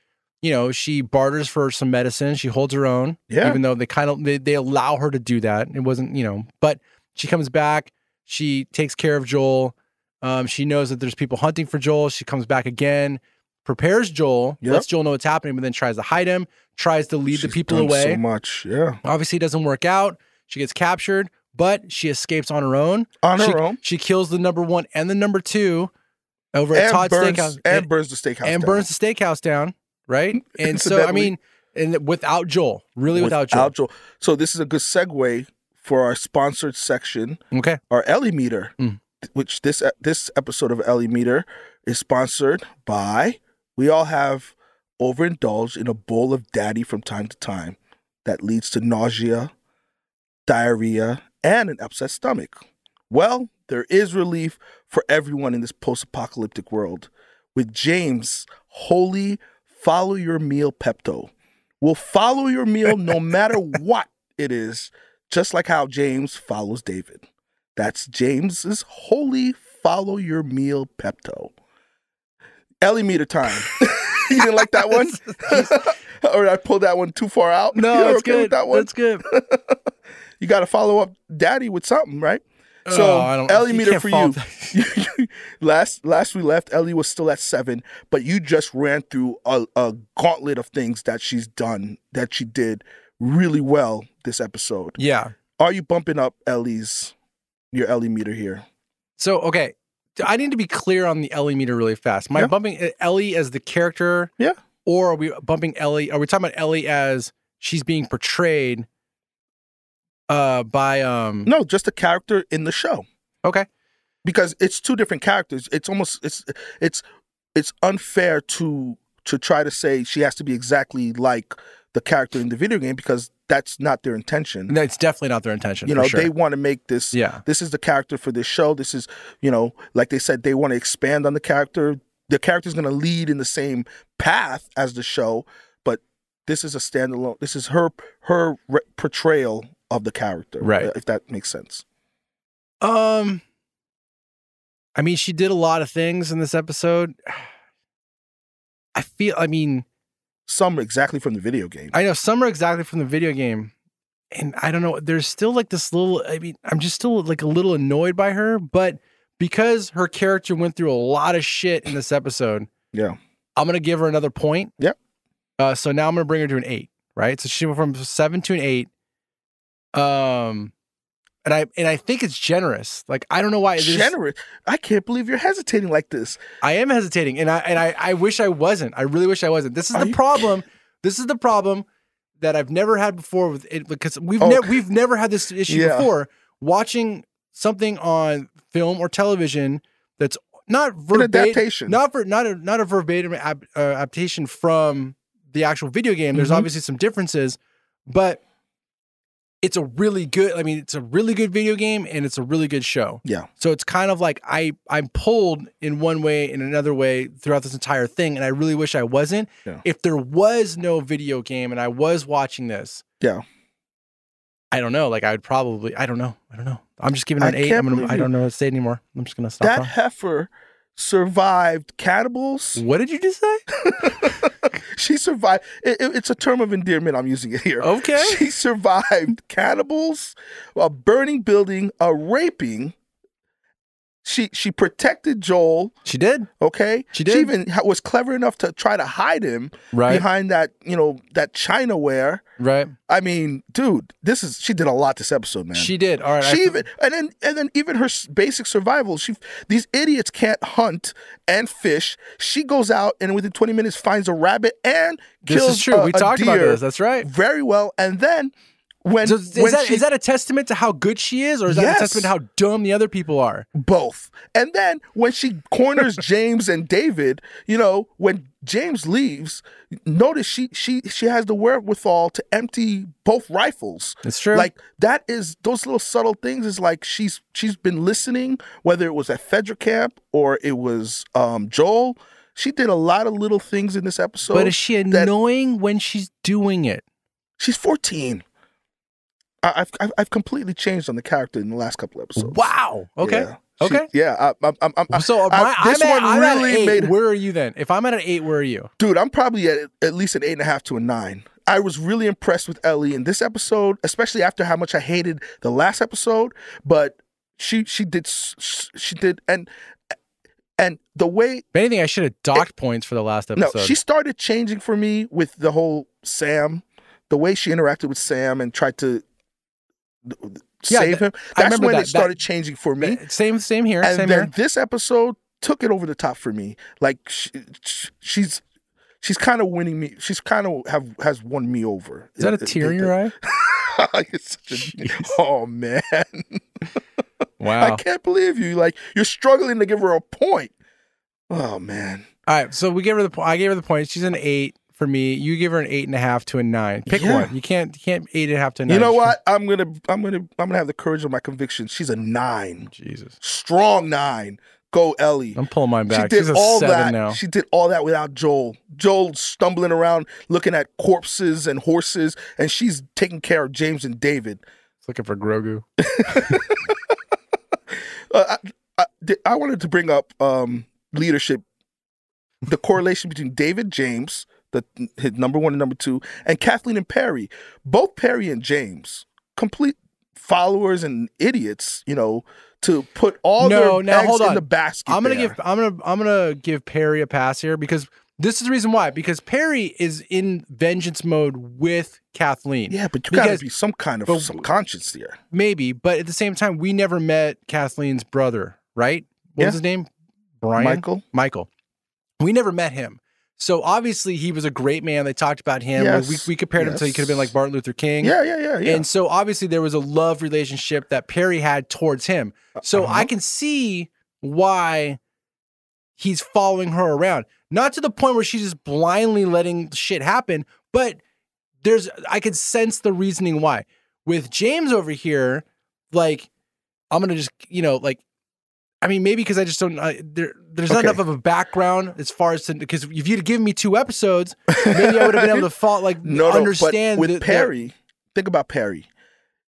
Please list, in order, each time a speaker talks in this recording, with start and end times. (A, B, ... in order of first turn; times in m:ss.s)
0:00.4-0:18.2 A
0:03.3-0:03.6 B
0:17.3-0:19.0 B
0:19.0-0:25.9 A
0:23.2-0:23.8 B
0:26.5-0:27.9 A
0:26.7-0:28.8 B
0:28.4-0:33.7 A
0:30.3-0:31.3 B
0:33.1-0:49.5 B
0:37.5-0:37.8 A
0:50.4-0:52.6 B
0:53.1-1:07.2 B
1:07.8-1:11.5 B
1:12.8-1:19.8 B
1:14.4-1:15.9 A
1:17.7-1:19.2 A
1:20.4-1:35.0 B
1:22.9-1:24.8 A
1:35.0-1:35.3 A
1:35.6-1:37.1 B
1:37.7-1:38.6 B
1:39.2-1:44.3 A
1:44.8-1:48.9 A
1:50.3-1:51.5 A
1:51.4-1:53.1 B
1:54.2-1:57.0 B
1:57.5-2:04.7 B
2:04.7-2:06.3 A
2:05.8-2:21.8 B
2:07.1-2:07.4 A
2:20.6-2:20.9 A
2:22.8-2:23.4 A
2:25.0-2:27.5 A
2:28.9-2:29.8 A
2:30.5-2:31.9 B
2:31.9-2:33.7 A
2:34.3-2:42.7 A
2:43.6-2:44.7 A
2:45.6-2:48.9 A
2:49.9-2:50.7 A
2:51.4-2:54.1 A
2:53.8-2:56.4 B
2:56.6-3:01.9 A
2:59.9-3:00.5 B
3:02.4-3:18.4 A
3:04.4-3:04.7 B
3:05.7-3:06.1 B
3:11.1-3:12.0 B
3:16.3-3:16.6 B
3:19.6-3:33.0 A
3:34.7-3:39.9 A
3:37.4-3:38.3 B
3:39.6-3:42.8 B
3:42.8-3:44.5 A
3:43.8-3:52.9 B
3:47.8-3:48.4 A
3:54.2-3:56.0 B
3:56.1-3:56.5 A
3:56.6-4:02.4 B
3:57.1-3:57.5 A
3:59.9-4:00.2 A
4:02.6-4:02.9 A
4:03.1-4:18.5 B
4:05.7-4:06.8 A
4:15.5-4:17.3 A
4:19.0-4:20.0 B
4:19.2-4:23.7 A
4:21.7-4:22.3 B
4:23.7-4:45.3 B
4:34.2-4:34.7 A
4:44.5-4:47.0 A
4:47.6-4:48.4 B
4:49.6-4:57.1 B
4:52.4-4:54.1 A
4:55.1-4:58.9 A
4:59.0-5:09.7 B
5:10.8-5:11.6 B
5:11.7-5:14.0 A
5:13.6-5:19.2 B
5:20.2-5:23.2 B
5:20.9-5:22.3 A
5:23.0-5:24.5 A
5:24.0-5:28.6 B
5:29.2-5:36.6 B
5:32.4-5:33.3 A
5:34.7-5:35.4 A
5:37.6-5:38.0 A
5:37.8-5:40.7 B
5:41.5-5:42.3 B
5:42.5-5:49.4 A
5:47.1-5:47.5 B
5:48.9-5:52.9 B
5:52.9-5:53.4 A
5:53.4-6:04.6 B
5:55.6-5:57.4 A
6:05.0-6:06.6 A
6:06.0-6:07.2 B
6:07.9-6:11.6 B
6:12.7-6:25.6 B
6:23.6-6:33.6 A
6:32.9-6:35.4 B
6:34.3-6:34.6 A
6:35.5-6:40.1 A
6:40.6-6:41.7 A
6:40.8-6:41.2 B
6:42.4-6:55.2 A
6:45.9-6:47.5 B
6:48.2-6:49.0 B
6:52.8-6:53.3 B
6:56.2-7:01.2 A
7:01.8-7:06.5 A
7:07.1-7:08.2 A
7:09.0-7:17.7 A
7:10.9-7:11.2 B
7:14.7-7:15.7 B
7:16.2-7:19.1 B